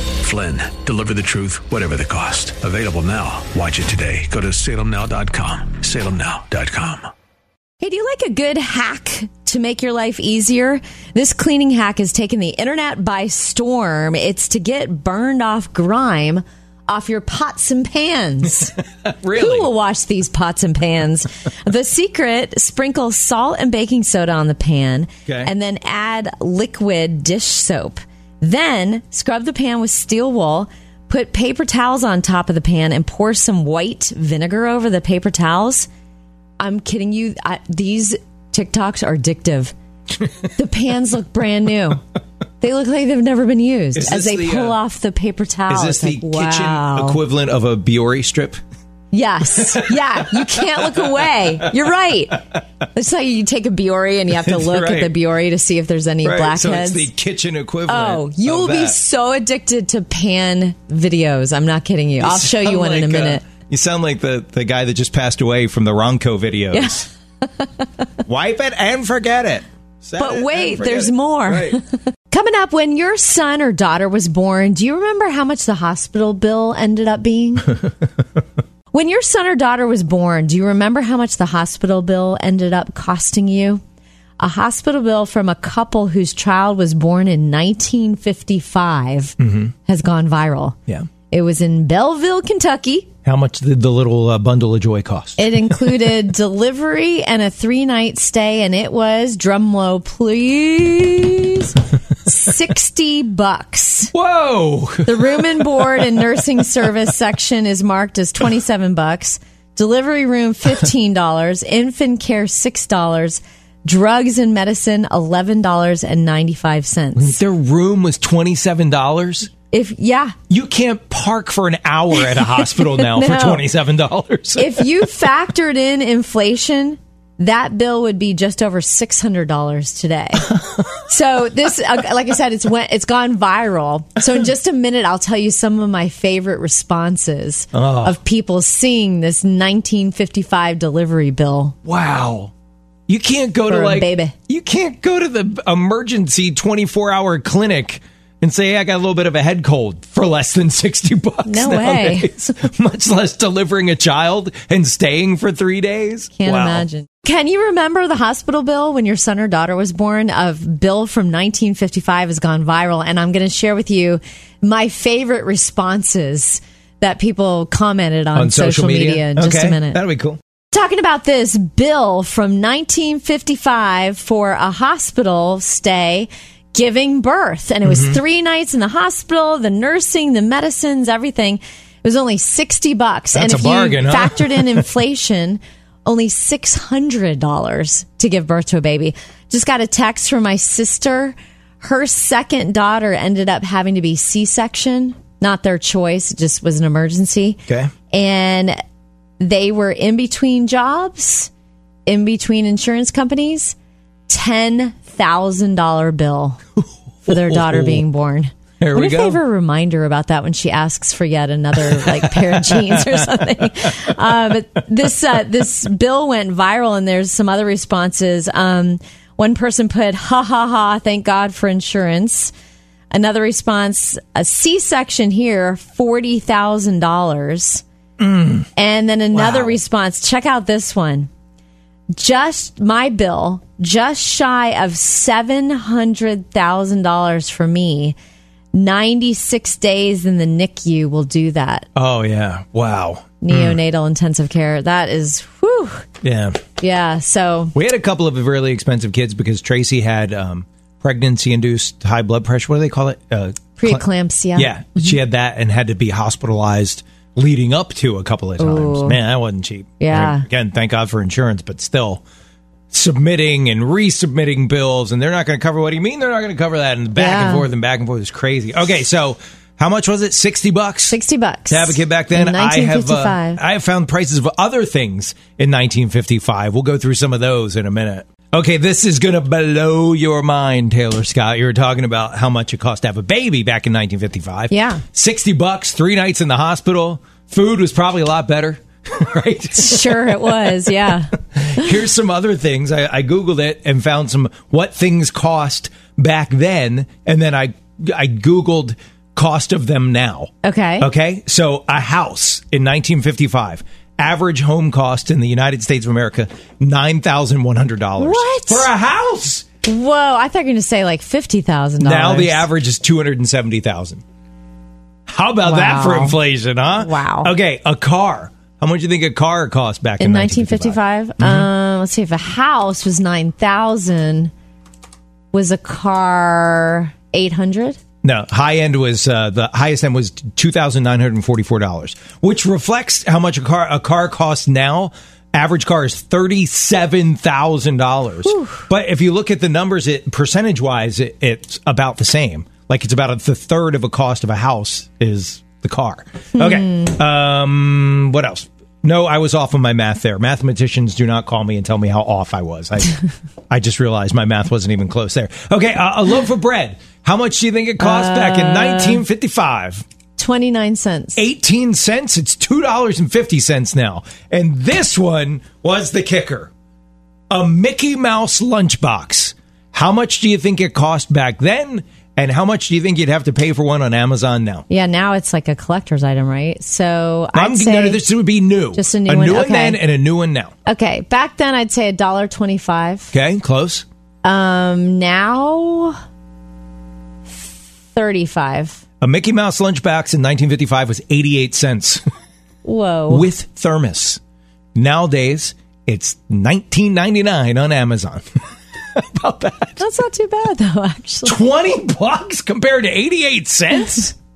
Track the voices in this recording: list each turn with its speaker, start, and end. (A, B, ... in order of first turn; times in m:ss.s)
0:00.2-0:07.1 A
0:07.8-0:18.8 B
0:19.0-0:19.7 C
0:19.4-0:35.9 B
0:36.6-0:39.7 B
0:40.6-0:42.0 B
0:42.6-0:47.2 B
0:44.0-0:44.8 C
0:45.7-0:48.6 C
0:49.1-0:52.4 B
0:49.5-0:51.7 C
0:52.9-0:57.1 B
0:54.4-0:55.1 C
0:56.2-0:59.0 C
0:57.9-1:03.4 B
1:02.2-1:07.1 C
1:06.7-1:07.1 B
1:08.3-1:11.8 C
1:10.2-1:17.8 B
1:18.9-1:23.8 B
1:24.4-1:30.8 B
1:29.4-1:29.7 C
1:31.3-1:33.1 B
1:33.2-1:35.6 C
1:35.4-1:44.1 B
1:44.1-1:46.2 C
1:45.1-1:57.4 B
1:57.2-1:59.5 C
1:59.7-2:00.4 B
2:00.5-2:05.0 C
2:02.4-2:03.6 B
2:04.6-2:21.8 B
2:10.5-2:10.8 C
2:17.7-2:18.2 C
2:21.8-2:22.5 C
2:23.1-2:36.9 C
2:23.7-2:24.4 B
2:31.5-2:32.3 B
2:36.4-2:50.0 B
2:48.3-2:50.4 C
2:50.7-3:18.8 B
2:57.8-2:58.2 C
3:03.4-3:04.9 C
3:19.4-3:21.5 B
3:22.1-3:23.8 B
3:24.3-3:26.6 B
3:27.2-3:28.0 C
3:27.3-3:42.5 B
3:28.8-3:29.4 C
3:32.0-3:33.2 C
3:43.1-3:47.8 B
3:48.2-3:48.7 C
3:48.8-3:51.3 B
3:49.3-3:49.7 C
3:52.1-3:58.2 B
3:58.7-4:01.9 B
4:02.0-4:03.8 C
4:03.4-4:06.0 B
4:06.2-4:06.6 C
4:06.8-4:07.7 B
4:07.7-4:22.2 C
4:13.8-4:15.1 B
4:18.6-4:19.2 B
4:20.0-4:20.4 B
4:22.9-4:31.2 C
4:27.2-4:27.7 B
4:31.1-4:33.6 B
4:31.7-5:09.7 C
4:44.7-4:45.0 B
4:49.8-4:51.3 B
5:00.6-5:01.1 B
5:08.2-5:08.9 B
5:09.8-5:12.6 B
5:12.0-5:14.2 C
5:15.3-5:21.7 C
5:15.6-5:16.4 B
5:17.0-5:17.5 B
5:20.2-5:24.5 B
5:25.5-5:28.0 B
5:28.2-5:53.2 C
5:38.4-5:38.9 B
5:46.6-5:47.1 B
5:53.7-6:00.0 C
5:58.0-5:59.2 B
6:00.4-6:01.4 B
6:01.4-6:06.7 C
6:07.5-6:14.8 C
6:14.9-6:18.2 B
6:17.5-6:20.7 C
6:19.0-6:20.0 B
6:20.9-6:23.3 B
6:23.3-6:24.1 C
6:24.4-6:26.2 B
6:27.5-6:29.0 B
6:29.2-6:32.2 C
6:32.8-6:33.5 B
6:33.3-6:34.4 C
6:35.0-6:38.4 C
6:39.1-6:40.0 C
6:40.0-6:41.6 B
6:41.4-6:44.3 C